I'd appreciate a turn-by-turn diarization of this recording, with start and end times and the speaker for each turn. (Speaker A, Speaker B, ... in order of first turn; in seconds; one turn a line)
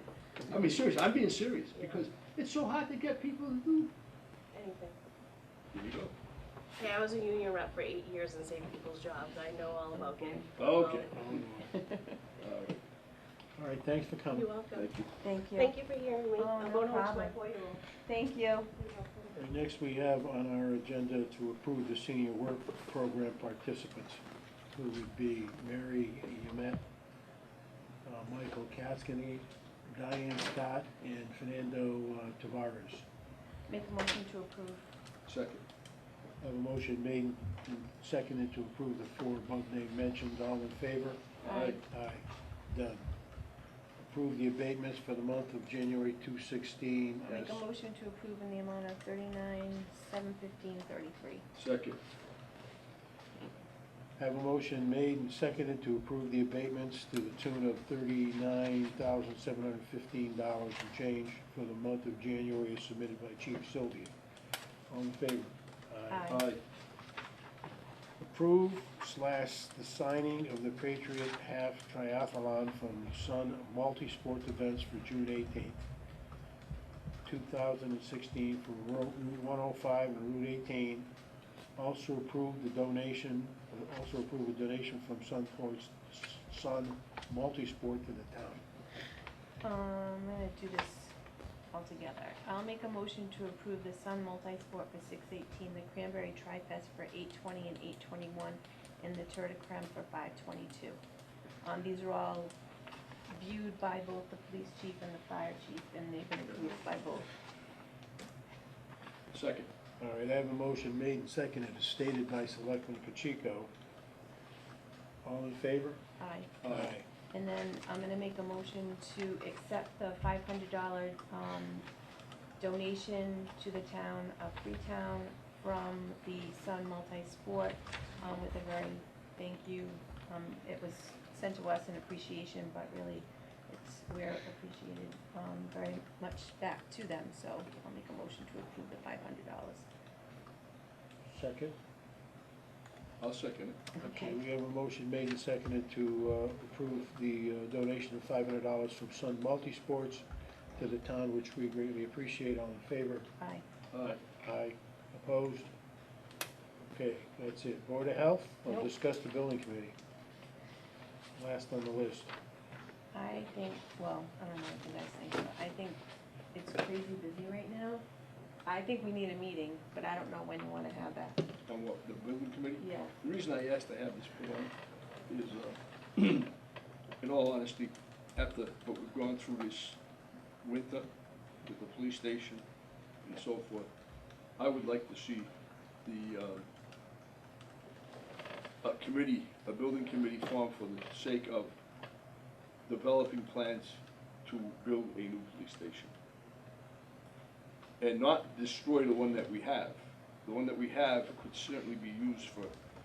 Speaker A: 0.5-3.9
Speaker B: 4.5-5.0
Speaker A: 5.7-6.1
Speaker B: 6.8-11.1
Speaker C: 9.9-10.4
Speaker A: 10.6-11.4
Speaker D: 11.1-11.7
Speaker C: 11.7-12.2
Speaker A: 12.4-12.8
Speaker D: 13.6-14.5
Speaker B: 14.3-14.9
Speaker A: 14.8-15.1
Speaker C: 15.2-15.8
Speaker B: 15.6-17.8
Speaker C: 16.4-17.4
Speaker C: 17.9-18.7
Speaker B: 18.8-19.3
Speaker D: 19.3-24.2
Speaker D: 24.7-26.8
Speaker D: 28.0-33.1
Speaker C: 33.7-34.9
Speaker A: 35.3-35.6
Speaker D: 36.4-43.1
Speaker A: 41.4-41.8
Speaker C: 41.4-41.8
Speaker D: 44.0-47.6
Speaker C: 47.3-51.5
Speaker A: 51.6-52.0
Speaker D: 54.2-64.1
Speaker D: 64.9-66.4
Speaker C: 66.1-66.4
Speaker A: 66.3-66.6
Speaker D: 68.3-75.8
Speaker D: 77.2-81.1
Speaker D: 81.8-88.6
Speaker C: 89.6-91.2
Speaker C: 91.7-101.0
Speaker C: 101.6-102.5
Speaker C: 103.3-107.3
Speaker A: 109.3-109.7
Speaker D: 110.0-113.7
Speaker D: 115.2-116.0
Speaker C: 116.2-116.5
Speaker A: 116.6-116.9
Speaker D: 116.6-117.1
Speaker C: 117.3-121.9
Speaker C: 122.6-139.9
Speaker D: 141.3-141.8
Speaker A: 143.2-143.8
Speaker C: 144.0-144.4
Speaker D: 144.0-150.2
Speaker D: 150.8-153.3
Speaker C: 153.4-153.6
Speaker A: 153.9-154.2
Speaker D: 154.0-155.7
Speaker D: 156.9-160.0
Speaker D: 161.4-162.3
Speaker C: 163.1-166.0
Speaker C: 166.5-168.0
Speaker C: 168.7-171.4
Speaker A: 171.7-174.7
Speaker C: 172.8-173.1
Speaker A: 175.3-176.5
Speaker A: 177.2-180.0
Speaker A: 180.6-181.1
Speaker A: 181.7-182.6
Speaker A: 183.2-183.9
Speaker A: 184.6-185.5
Speaker A: 186.1-186.7
Speaker A: 188.8-191.8
Speaker A: 192.9-196.1
Speaker A: 198.0-202.7